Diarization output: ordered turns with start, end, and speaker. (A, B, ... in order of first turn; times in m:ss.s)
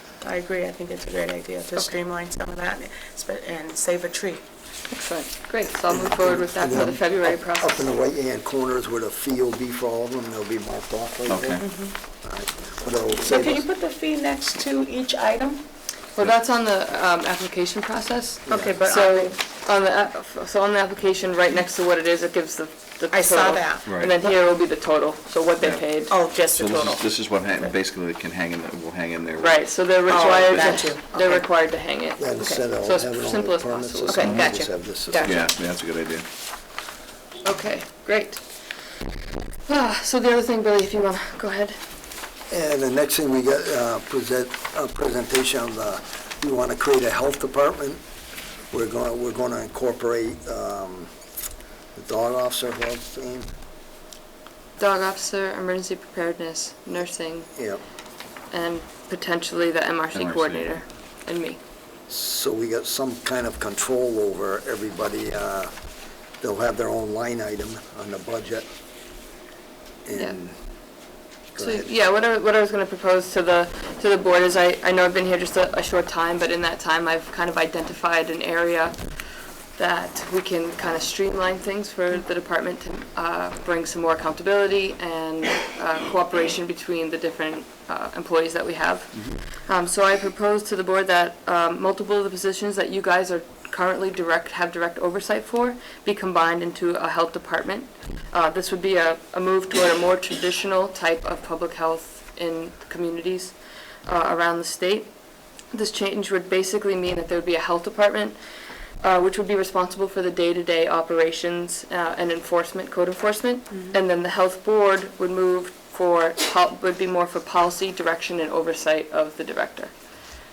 0:00.2-0:04.4 A
0:04.9-0:07.9 B
0:05.9-0:11.7 C
0:11.3-0:11.6 D
0:11.6-0:11.9 A
0:12.2-0:13.6 C
0:13.2-0:15.6 A
0:16.2-0:26.2 B
0:18.5-0:19.4 A
0:23.1-0:24.3 A
0:25.6-0:30.9 D
0:26.1-0:27.7 A
0:29.4-0:34.5 B
0:30.1-0:31.4 A
0:32.2-0:35.2 C
0:34.1-0:35.3 A
0:35.1-0:35.4 B
0:35.2-0:36.3 D
0:37.4-0:38.4 B
0:39.6-0:41.8 B
0:42.5-0:48.0 C
0:48.7-0:51.1 C
0:52.0-0:53.5 C
0:54.8-0:57.5 B
0:57.5-0:57.8 C
0:58.5-1:01.6 B
1:00.1-1:00.8 D
1:02.1-1:05.7 C
1:06.4-1:08.7 C
1:10.0-1:10.6 C
1:11.5-1:11.9 C
1:11.6-1:19.0 B
1:19.8-1:45.1 B
1:45.7-1:48.4 B
1:49.0-1:59.9 B